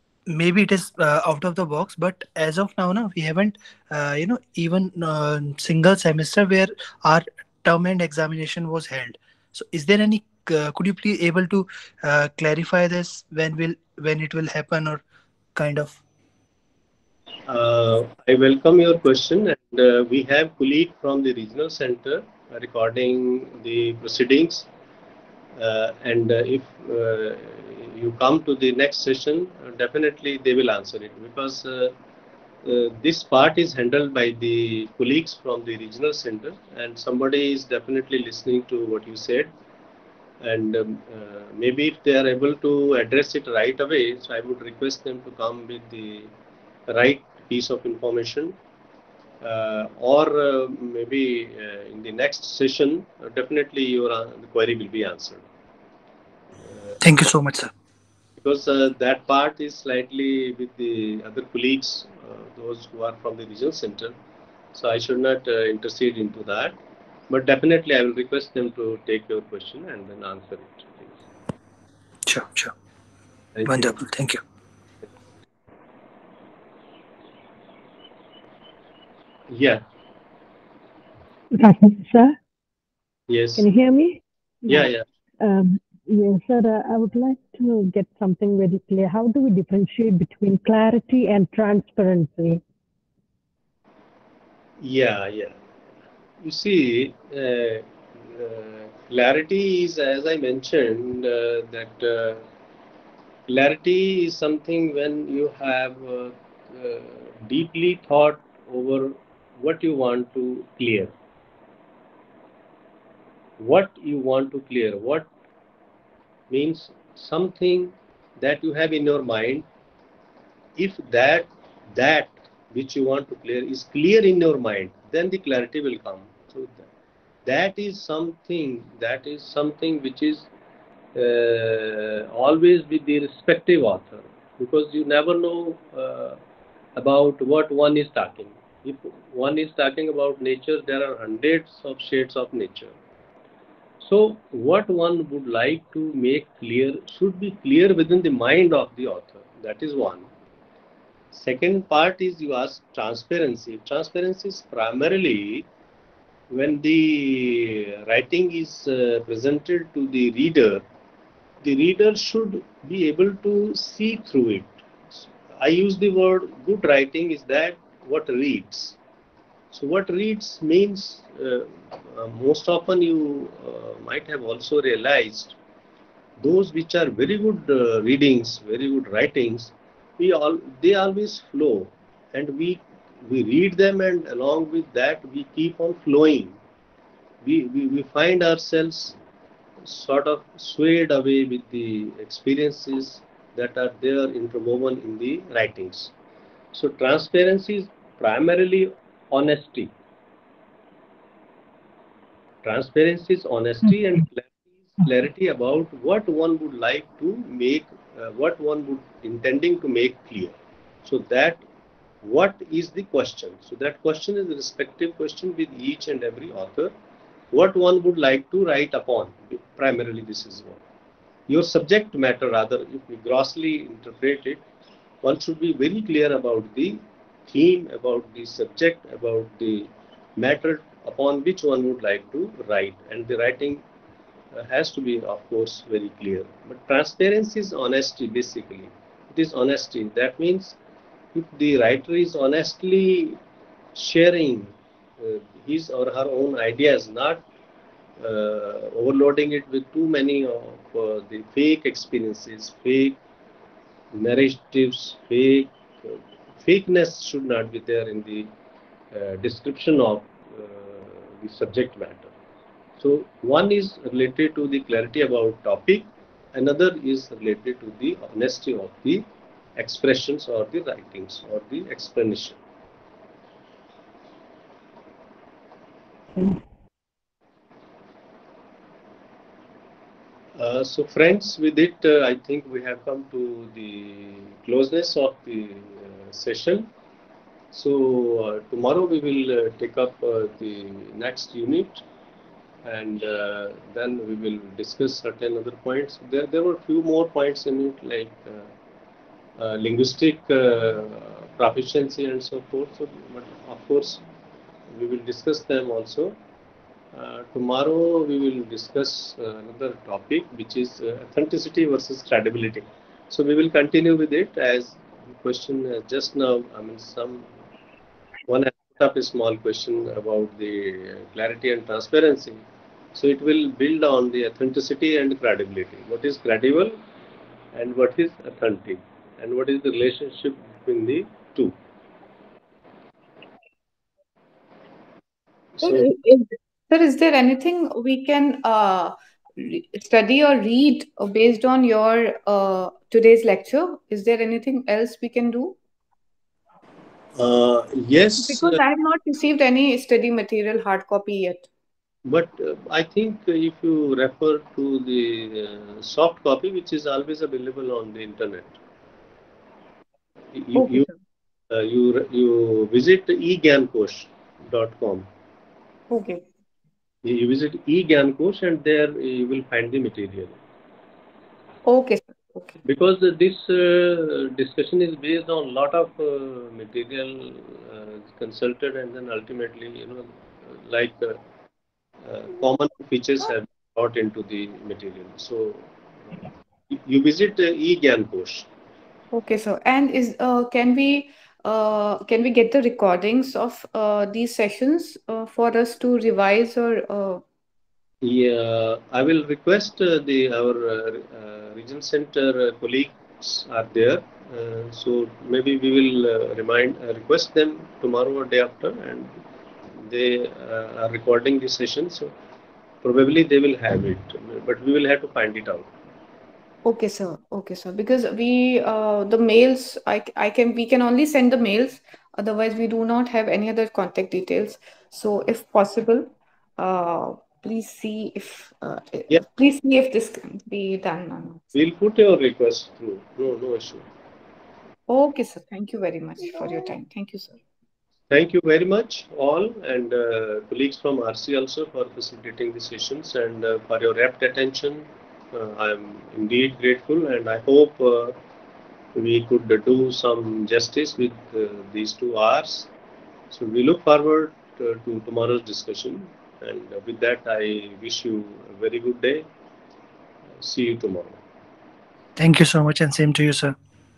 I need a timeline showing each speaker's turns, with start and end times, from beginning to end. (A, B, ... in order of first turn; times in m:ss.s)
0:00.3-0:15.0 A
0:15.6-0:16.0 A
0:17.5-0:24.7 B
0:25.6-0:31.9 B
0:32.6-0:39.5 B
0:40.4-0:46.3 B
0:46.9-0:48.5 B
0:49.4-0:55.4 B
0:57.0-0:57.7 A
0:58.4-1:04.2 B
1:04.7-1:06.8 B
1:07.3-1:11.1 B
1:12.3-1:12.7 A
1:13.5-1:13.9 B
1:13.7-1:14.4 A
1:19.5-1:19.8 B
1:21.5-1:22.4 C
1:23.3-1:23.6 B
1:23.6-1:32.6 C
1:24.7-1:25.0 B
1:34.8-1:35.6 B
1:36.4-1:42.4 B
1:43.5-1:51.1 B
1:53.6-1:55.3 B
1:56.5-1:59.6 B
2:00.8-2:06.9 B
2:07.4-2:10.5 B
2:11.1-2:16.4 B
2:17.0-2:22.9 B
2:24.0-2:30.3 B
2:31.3-2:35.7 B
2:36.5-2:40.8 B
2:41.6-2:49.0 B
2:49.7-2:55.6 B
2:56.4-3:06.6 B
3:07.4-3:09.2 B
3:09.8-3:16.1 B
3:16.7-3:19.9 B
3:22.6-3:31.6 B
3:32.2-3:36.9 B
3:37.5-3:40.8 B
3:41.5-3:44.6 B
3:45.2-3:53.8 B
3:54.5-4:00.8 B
4:01.3-4:03.4 B
4:03.9-4:07.4 B
4:08.2-4:13.2 B
4:14.1-4:18.5 B
4:19.1-4:22.3 B
4:23.0-4:29.2 B
4:29.8-4:32.6 B
4:40.6-4:46.9 B
4:47.7-4:52.0 B
4:52.8-4:58.7 B
4:59.6-5:04.2 B
5:04.9-5:06.4 B
5:07.1-5:17.5 B
5:18.5-5:22.6 B
5:23.1-5:27.0 B
5:27.7-5:31.7 B
5:35.8-5:36.1 B
5:35.8-5:45.8 D
5:47.4-5:48.8 B
5:48.4-5:51.7 D
5:52.2-5:58.8 B
6:00.5-6:01.1 B
6:00.7-6:01.1 D
6:01.7-6:05.3 B
6:06.1-6:06.4 D
6:07.2-6:10.6 B
6:11.8-6:12.7 D
6:12.8-6:21.4 B
6:22.2-6:28.7 B
6:29.3-6:37.4 D
6:38.2-6:49.3 B
6:49.9-6:52.3 B
6:53.0-6:55.9 B
6:56.8-7:11.6 D
7:11.7-7:14.1 B
7:15.1-7:17.6 D
7:18.3-7:28.4 B
7:29.1-7:32.9 B
7:33.5-7:39.4 B
7:40.6-7:41.4 B
7:42.4-7:43.7 A